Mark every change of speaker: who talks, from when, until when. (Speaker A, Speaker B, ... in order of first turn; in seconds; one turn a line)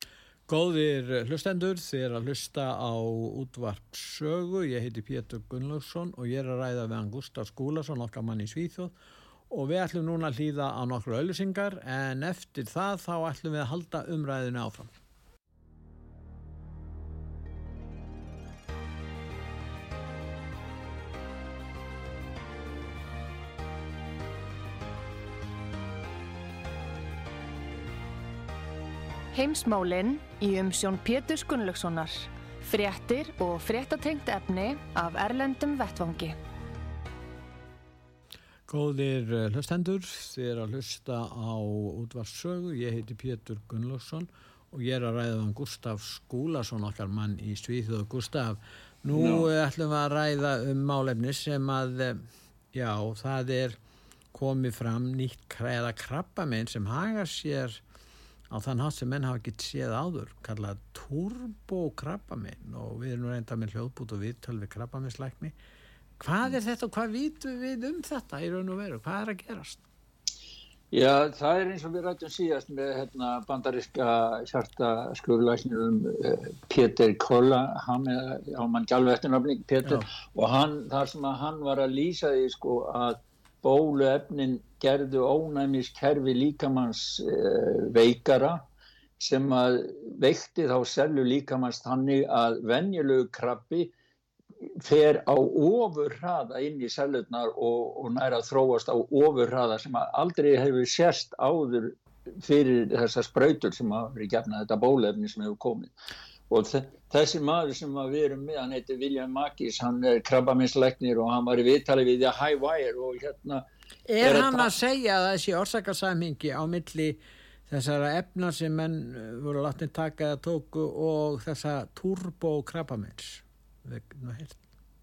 Speaker A: 0.5-8.9
Speaker A: 9.5-14.9
Speaker B: 29.3-36.4
Speaker A: 38.7-53.8
Speaker C: 49.1-49.5
Speaker A: 54.3-57.8
Speaker A: 58.5-65.5
Speaker A: 66.2-69.8
Speaker C: 70.9-88.6
Speaker C: 89.2-93.9
Speaker C: 94.8-105.9
Speaker C: 106.5-113.7
Speaker A: 114.1-124.6
Speaker C: 114.2-114.7